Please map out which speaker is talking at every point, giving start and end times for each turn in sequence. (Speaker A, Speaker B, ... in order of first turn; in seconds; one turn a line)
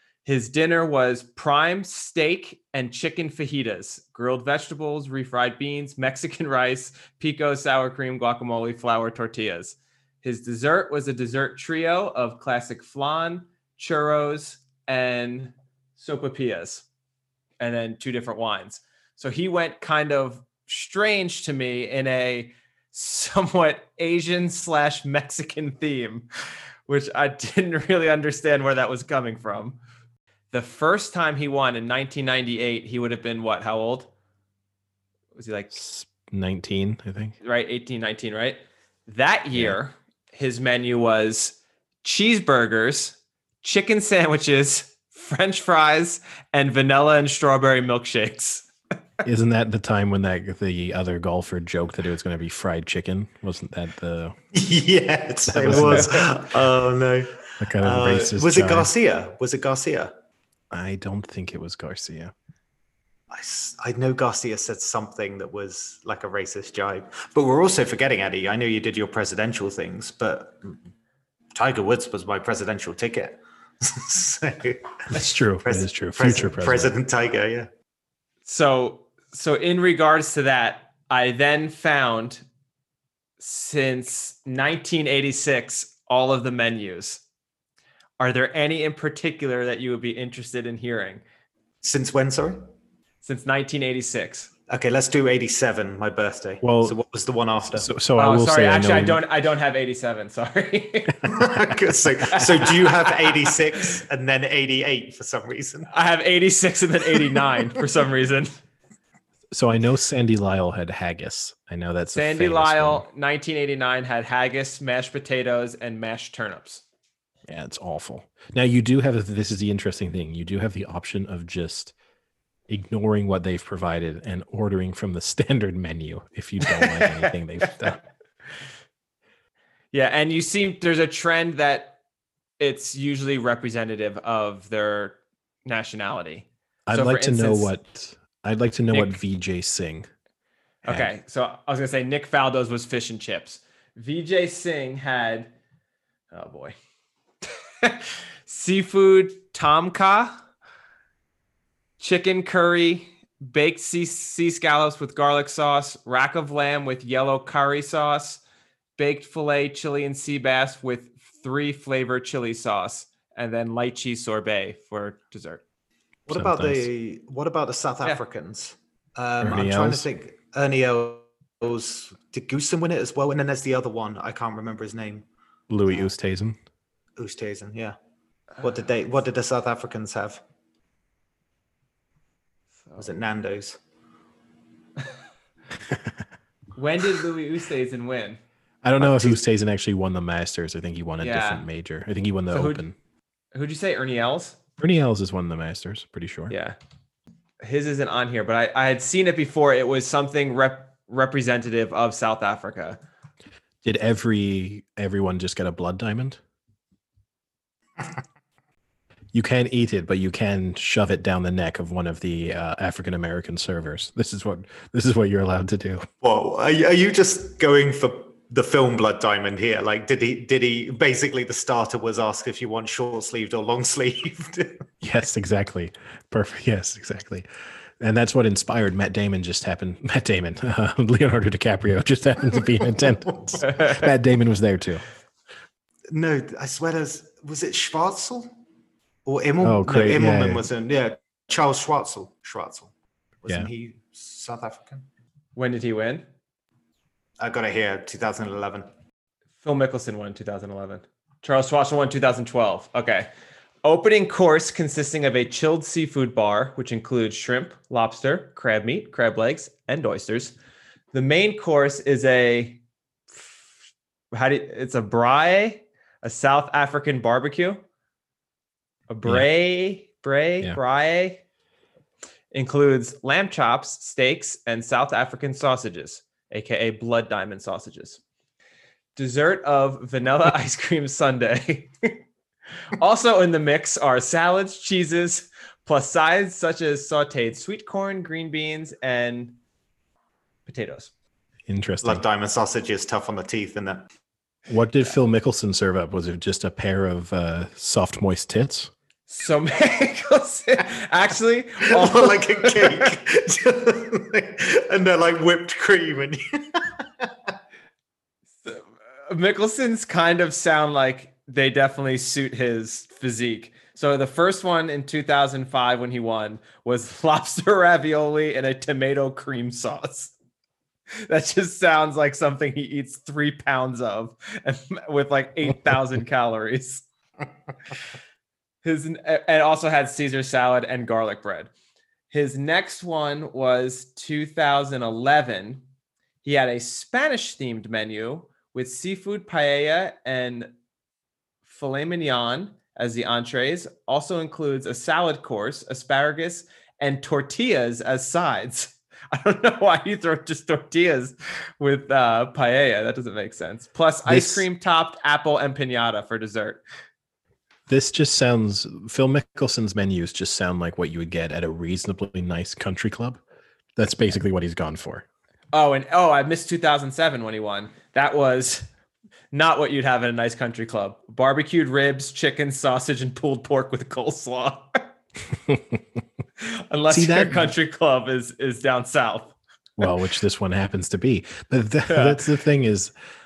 Speaker A: 0.2-16.9
Speaker A: 17.6-26.3
Speaker A: 26.9-29.8
Speaker A: 30.5-34.1
Speaker A: 35.4-35.8
Speaker B: 35.7-37.4
Speaker A: 37.4-48.7
Speaker B: 49.2-54.4
Speaker C: 54.5-60.1
Speaker B: 55.5-56.3
Speaker B: 57.6-58.9
Speaker B: 60.7-62.3
Speaker C: 63.3-70.8
Speaker C: 71.5-77.7
Speaker B: 75.1-76.9
Speaker A: 78.5-82.4
Speaker A: 83.4-87.2
Speaker A: 88.2-91.2
Speaker C: 91.8-92.6
Speaker A: 93.2-94.5
Speaker C: 94.7-97.9
Speaker B: 96.6-97.0
Speaker B: 97.7-99.2
Speaker A: 98.2-101.3
Speaker C: 101.2-105.9
Speaker A: 102.3-103.5
Speaker A: 105.9-108.6
Speaker B: 109.5-113.0
Speaker A: 112.2-116.8
Speaker B: 117.5-121.9
Speaker B: 122.7-128.0
Speaker A: 126.7-127.2
Speaker A: 129.9-132.0
Speaker A: 132.6-137.7
Speaker B: 136.9-140.1
Speaker B: 140.8-141.1
Speaker A: 140.9-145.5
Speaker A: 146.3-146.8
Speaker A: 147.8-150.4
Speaker A: 152.0-158.4
Speaker A: 159.0-165.6
Speaker C: 166.3-175.2
Speaker B: 166.3-166.9
Speaker B: 169.4-170.1
Speaker B: 175.7-176.6
Speaker C: 177.2-178.0
Speaker C: 178.6-180.4
Speaker C: 183.0-183.8
Speaker B: 185.9-186.2
Speaker A: 186.8-188.4
Speaker B: 188.8-192.9
Speaker A: 189.0-189.4
Speaker A: 191.2-191.6
Speaker A: 192.5-192.8
Speaker A: 193.5-194.6
Speaker B: 194.8-196.5
Speaker A: 196.5-196.8
Speaker A: 197.6-203.0
Speaker B: 203.8-206.4
Speaker B: 209.3-216.1
Speaker C: 216.2-224.9
Speaker B: 225.0-227.5
Speaker B: 228.0-235.1
Speaker A: 233.7-233.9
Speaker C: 236.1-238.5
Speaker C: 239.2-245.1
Speaker B: 239.6-240.7
Speaker A: 245.6-246.2
Speaker C: 247.4-248.9
Speaker A: 249.6-253.3
Speaker A: 253.8-260.6
Speaker A: 261.1-262.8
Speaker A: 264.3-267.8
Speaker A: 269.1-271.4
Speaker A: 272.5-278.2
Speaker A: 279.2-282.1
Speaker A: 282.9-289.6
Speaker A: 290.7-291.1
Speaker B: 291.7-292.2
Speaker C: 292.0-294.1
Speaker B: 294.7-298.9
Speaker A: 299.3-303.1
Speaker C: 301.9-307.3
Speaker A: 308.6-320.3
Speaker A: 321.2-327.1
Speaker A: 328.8-331.7
Speaker A: 332.3-335.9
Speaker A: 336.4-340.7
Speaker A: 341.7-356.8
Speaker B: 354.3-354.7
Speaker B: 357.9-363.4
Speaker B: 364.0-365.3
Speaker A: 365.7-368.9
Speaker A: 369.5-375.1
Speaker B: 375.7-376.0
Speaker A: 376.6-379.6
Speaker B: 377.1-377.7
Speaker B: 380.0-383.1
Speaker A: 382.1-382.4